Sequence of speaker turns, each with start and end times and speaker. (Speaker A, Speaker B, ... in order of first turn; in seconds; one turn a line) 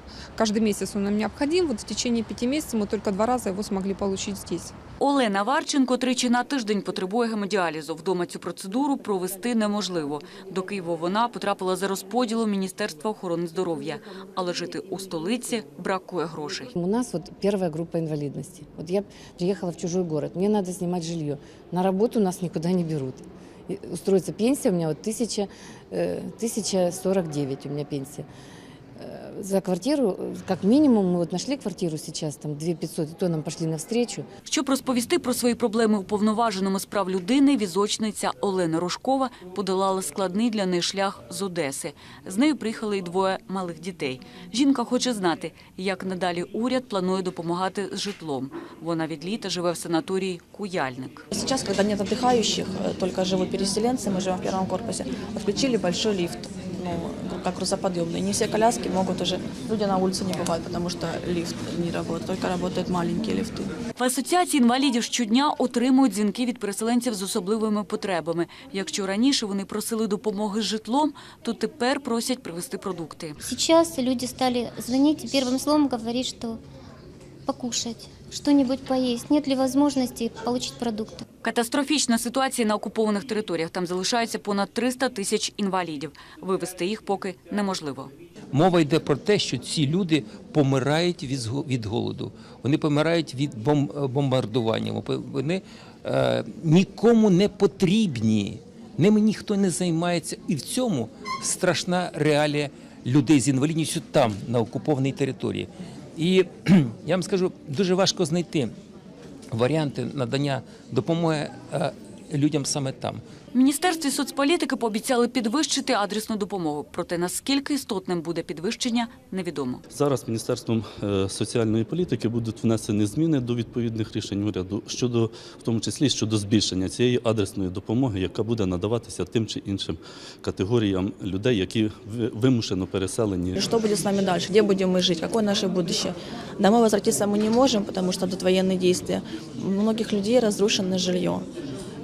Speaker A: 0.4-4.7
Speaker B: 5.0-16.7
Speaker C: 16.8-28.3
Speaker C: 29.0-34.3
Speaker B: 34.5-51.3
Speaker D: 51.3-63.7
Speaker B: 64.0-73.4
Speaker E: 73.4-76.6
Speaker E: 77.5-81.2
Speaker B: 81.4-88.1
Speaker F: 88.5-108.7
Speaker F: 109.5-113.2
Speaker B: 113.5-119.8
Speaker G: 119.9-133.6
Speaker D: 133.6-141.5